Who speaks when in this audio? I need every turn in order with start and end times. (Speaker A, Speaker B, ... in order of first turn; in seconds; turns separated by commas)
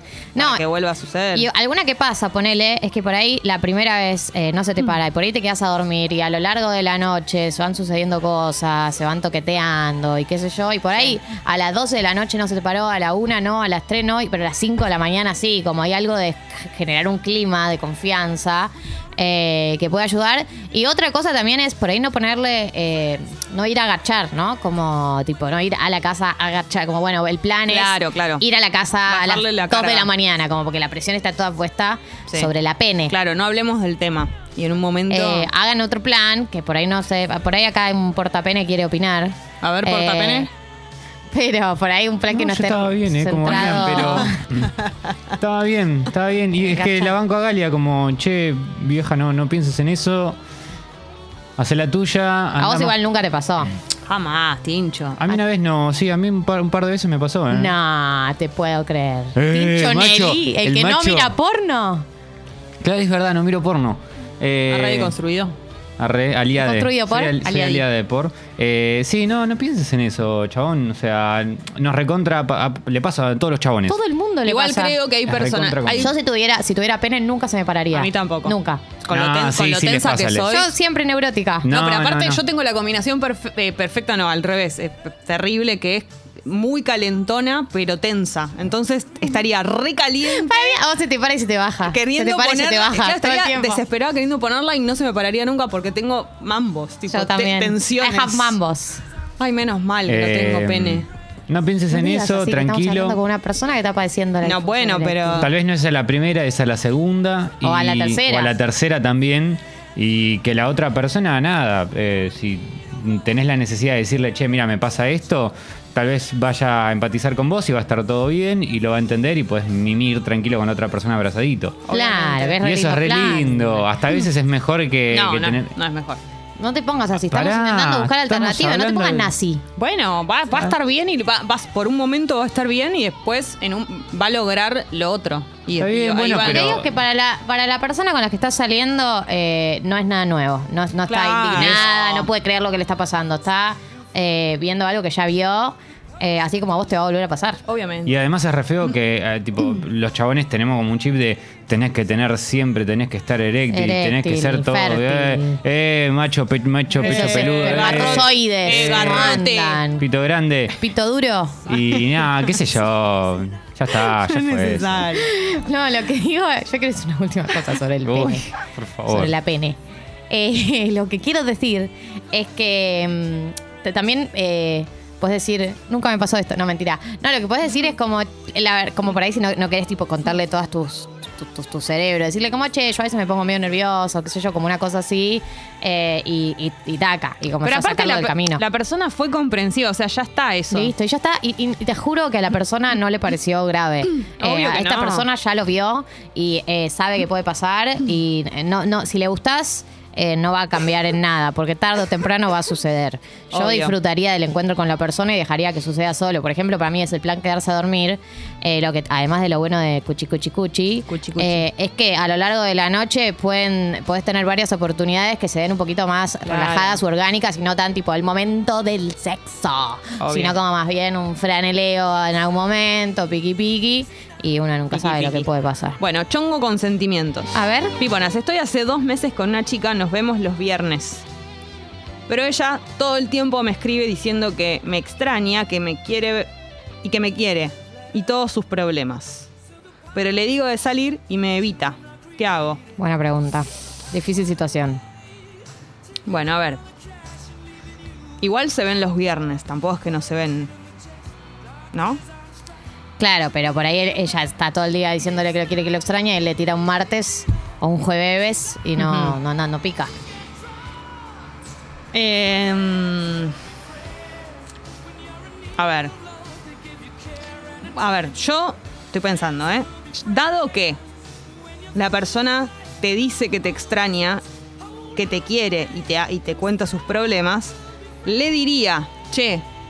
Speaker A: 0.3-0.6, Speaker B: 0.3-1.5, Speaker A: 1.3-33.1, Speaker B: 27.7-28.4, Speaker B: 29.1-30.1, Speaker B: 33.1-35.5, Speaker A: 35.1-40.5, Speaker B: 39.6-40.5, Speaker A: 41.3-44.4, Speaker C: 42.3-44.7, Speaker B: 43.5-44.3, Speaker C: 45.4-50.4, Speaker A: 46.6-47.1, Speaker C: 51.6-52.9, Speaker A: 52.6-53.7, Speaker B: 54.1-55.2, Speaker C: 55.2-57.7, Speaker A: 57.5-62.0, Speaker C: 59.4-61.3, Speaker C: 62.8-65.1, Speaker B: 64.7-65.5, Speaker C: 66.0-74.0, Speaker A: 66.5-67.8, Speaker A: 73.8-75.0, Speaker B: 74.4-76.1, Speaker C: 75.2-76.1, Speaker A: 76.0-78.8, Speaker B: 77.9-80.7, Speaker C: 79.1-80.5, Speaker A: 80.5-81.7, Speaker C: 81.6-82.4, Speaker B: 81.7-90.8, Speaker A: 90.3-93.8, Speaker B: 91.8-98.6, Speaker A: 97.1-99.0, Speaker B: 99.4-101.1, Speaker C: 100.1-103.2, Speaker A: 101.9-105.5, Speaker B: 104.4-105.5, Speaker C: 105.4-121.8, Speaker A: 107.6-108.5, Speaker B: 121.8-122.6, Speaker A: 121.9-123.9, Speaker C: 122.6-125.7, Speaker B: 125.1-126.2, Speaker A: 126.6-129.6, Speaker C: 127.1-129.3, Speaker B: 129.8-136.8, Speaker C: 135.8-136.9, Speaker A: 136.4-147.6, Speaker B: 141.1-142.3, Speaker C: 141.6-141.8, Speaker B: 147.7-148.1, Speaker C: 148.0-159.4, Speaker A: 153.7-155.6, Speaker B: 157.0-159.8, Speaker A: 157.0-160.1, Speaker C: 160.0-160.8, Speaker A: 160.7-161.7, Speaker C: 161.7-165.1, Speaker B: 161.9-162.5, Speaker B: 164.0-165.3, Speaker A: 165.1-168.5, Speaker C: 168.0-169.3, Speaker A: 169.1-169.8, Speaker A: 170.3-188.6, Speaker B: 187.6-190.9, Speaker A: 190.7-226.0, Speaker B: 194.4-195.2, Speaker B: 203.5-203.9, Speaker B: 211.1-211.6, Speaker B: 216.4-217.0, Speaker B: 220.2-220.6, Speaker B: 224.9-225.5, Speaker B: 226.0-231.2, Speaker A: 227.5-227.9, Speaker B: 232.3-236.5, Speaker B: 237.0-239.5, Speaker B: 240.1-242.8, Speaker A: 243.0-245.0, Speaker B: 246.2-246.8, Speaker B: 248.4-250.7, Speaker B: 251.9-252.2, Speaker A: 253.2-260.1, Speaker B: 259.0-259.4, Speaker B: 262.1-263.5, Speaker B: 265.8-266.1, Speaker B: 267.9-271.0, Speaker B: 271.9-274.4, Speaker B: 275.1-279.6